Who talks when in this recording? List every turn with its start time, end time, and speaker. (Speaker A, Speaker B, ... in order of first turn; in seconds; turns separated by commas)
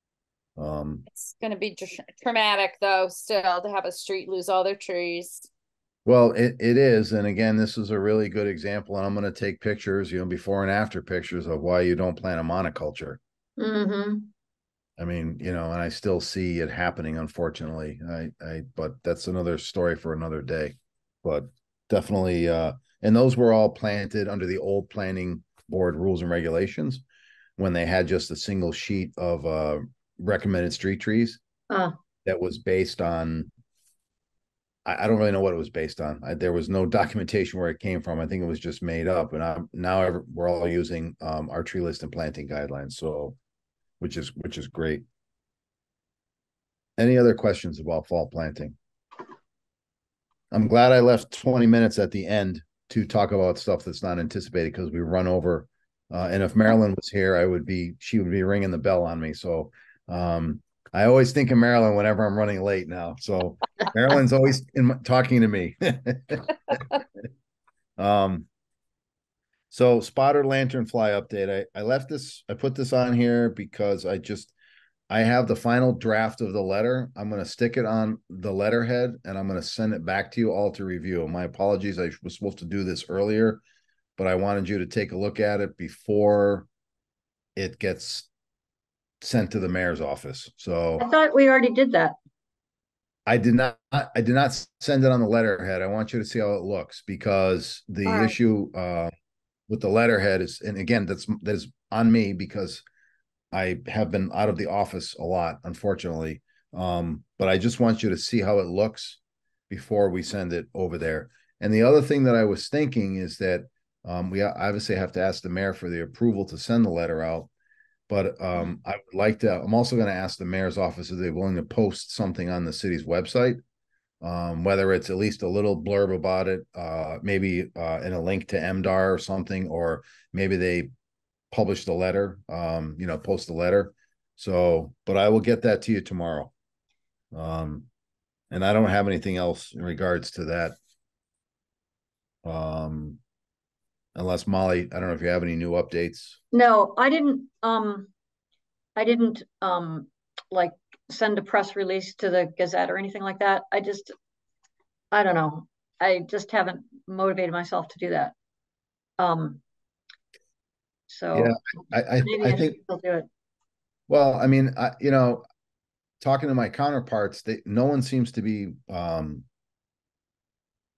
Speaker A: 0.6-1.1, Speaker B: 1.1-5.5, Speaker A: 6.1-13.2, Speaker C: 13.6-14.3, Speaker A: 15.0-27.0, Speaker A: 27.6-31.4, Speaker C: 31.7-32.0, Speaker A: 32.2-33.5, Speaker A: 34.9-43.4, Speaker A: 44.0-45.0, Speaker A: 47.0-48.8, Speaker A: 50.5-66.8, Speaker A: 68.0-68.5, Speaker A: 69.7-74.5, Speaker A: 75.1-83.6, Speaker A: 84.2-86.7, Speaker A: 87.6-88.3, Speaker A: 89.2-91.1, Speaker C: 91.0-92.2, Speaker A: 93.3-99.1, Speaker C: 98.1-98.3, Speaker A: 99.7-102.8, Speaker A: 103.5-117.5, Speaker A: 118.1-123.6, Speaker A: 124.2-130.9, Speaker A: 131.5-136.5, Speaker A: 137.3-137.9, Speaker A: 138.5-140.8, Speaker A: 142.4-143.2, Speaker A: 144.2-146.4, Speaker C: 146.5-148.1, Speaker C: 149.0-154.2, Speaker C: 155.1-158.3, Speaker C: 159.2-159.6, Speaker C: 161.1-161.6, Speaker A: 161.3-162.8, Speaker C: 162.2-163.3, Speaker A: 164.1-165.4, Speaker A: 166.2-169.4